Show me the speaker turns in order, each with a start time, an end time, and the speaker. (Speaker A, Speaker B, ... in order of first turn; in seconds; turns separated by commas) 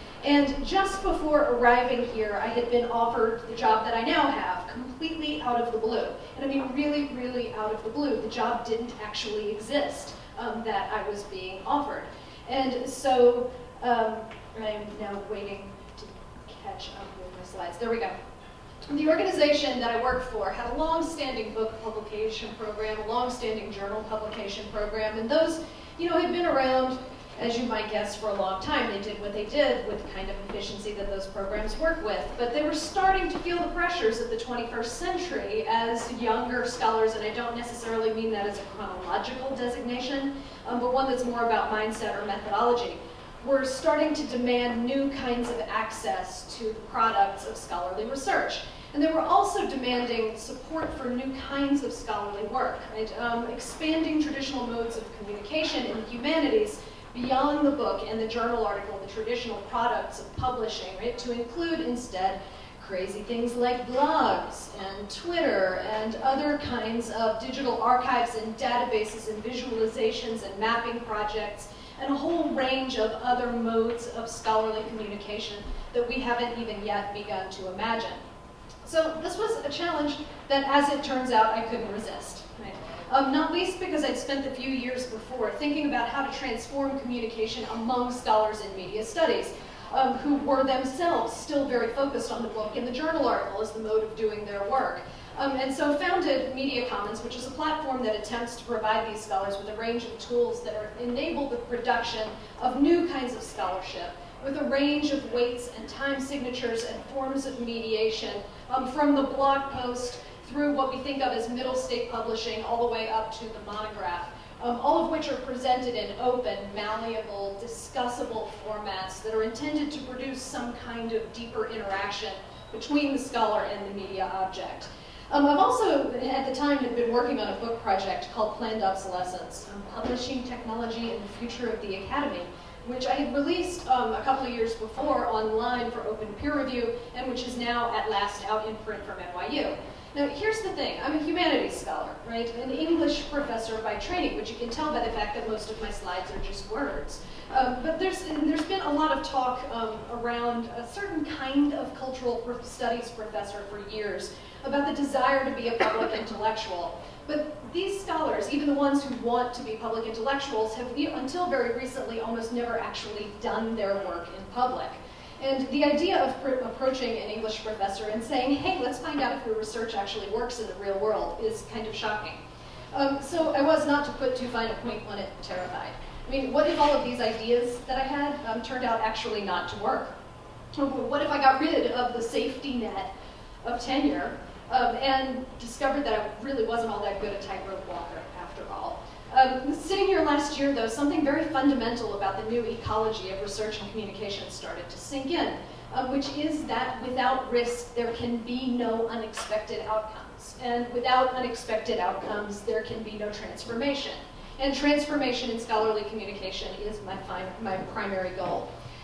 Speaker A: 0.2-18.2, Speaker A: 18.8-78.2, Speaker A: 78.8-180.1, Speaker A: 180.8-183.1, Speaker A: 183.6-208.7